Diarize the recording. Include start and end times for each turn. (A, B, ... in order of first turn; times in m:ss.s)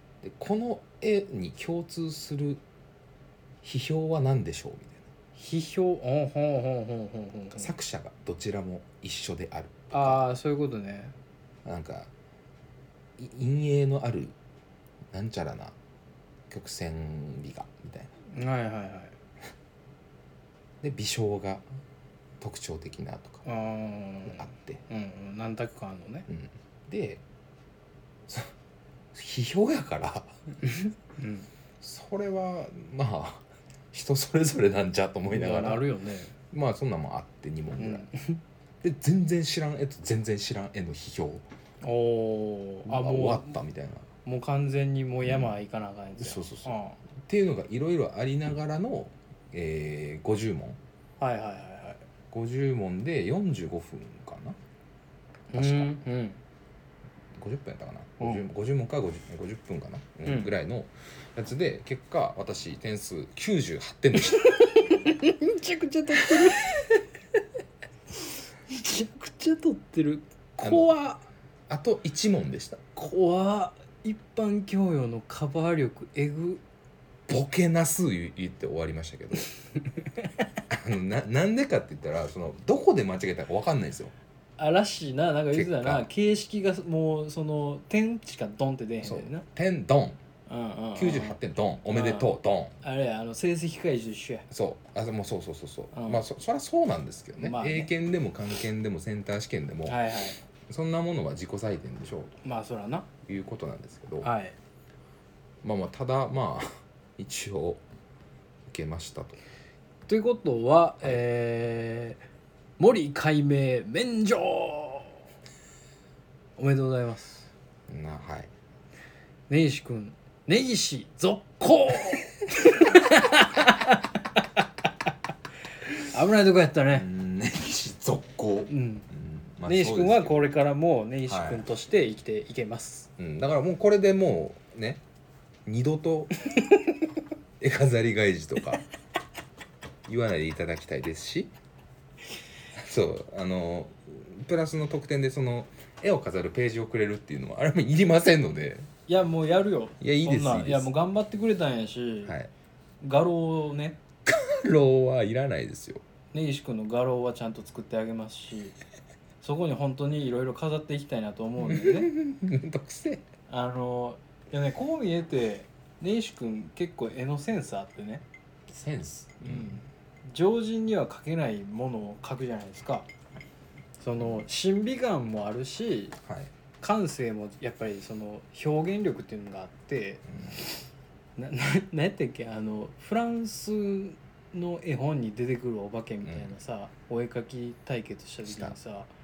0:00.2-0:02.6 A
0:03.6-0:05.0 A
0:05.4-0:07.7 B
0:07.5-0:10.2 A
0:09.9-0:11.1 B
0:11.6-0:12.1 A
0:13.2-0:14.3 A
0:15.1-0:15.8 A
0:16.5-0:18.1 A
0:18.3-0:19.1 B
0:20.8-0:21.6 A
0:22.4-0:23.4 A
0:23.4-0:26.3 B
0:24.3-0:24.8 A
0:26.3-0:27.2 A
0:29.1-0:30.3 A
0:31.2-0:31.5 B
0:31.8-0:35.9 A
0:35.3-0:36.3 B
0:36.5-0:38.1 A
0:37.8-0:38.4 B
0:38.8-0:41.4 A
0:41.8-0:43.5 B
0:42.8-0:44.1 A
0:44.2-0:47.0 B
0:45.2-0:45.5 A
0:46.2-0:50.8 A
0:51.2-0:52.0 B
0:52.3-0:54.6 A
0:55.5-0:56.4 B
0:55.6-0:56.0 A
0:57.4-1:04.6 A
1:00.2-1:00.5 B
1:04.3-1:06.9 B
1:08.7-1:11.3 B
1:10.6-1:10.9 A
1:11.7-1:12.8 A
1:13.0-1:16.6 B
1:17.3-1:19.5 A
1:20.7-1:24.1 A
1:24.6-1:29.4 B
1:25.5-1:26.1 A
1:29.0-1:30.2 A
1:30.5-1:31.4 B
1:31.0-1:32.7 A
1:31.9-1:34.5 B
1:34.5-1:40.0 A
1:35.9-1:36.2 B
1:37.4-1:37.9 B
1:39.9-1:40.4 B
1:40.7-1:42.3 A
1:42.4-1:43.1 B
1:43.3-1:44.3 A
1:44.2-1:44.6 B
1:45.6-1:47.8 A
1:48.7-1:49.4 A
1:50.1-1:52.2 B
1:52.8-1:55.2 B
1:56.6-1:57.5 B
1:57.9-1:58.5 A
1:59.5-2:04.6 B
2:05.9-2:07.1 B
2:06.9-2:10.5 A
2:08.7-2:09.1 B
2:09.6-2:13.1 B
2:11.2-2:11.7 A
2:13.2-2:15.0 A
2:15.7-2:16.3 A
2:16.5-2:17.0 B
2:17.6-2:18.8 A
2:20.1-2:21.5 A
2:22.8-2:28.9 A
2:29.1-2:32.4 B
2:30.0-2:30.9 A
2:32.2-2:32.5 A
2:33.0-2:34.0 B
2:34.3-2:36.0 A
2:36.3-2:38.8 B
2:39.4-2:42.1 B
2:41.6-2:43.2 A
2:43.5-2:48.2 B
2:48.7-2:49.8 A
2:49.4-2:53.1 B
2:54.0-2:56.2 B
2:56.8-3:00.2 B
3:01.4-3:09.1 B
3:06.2-3:06.5 A
3:08.5-3:08.8 A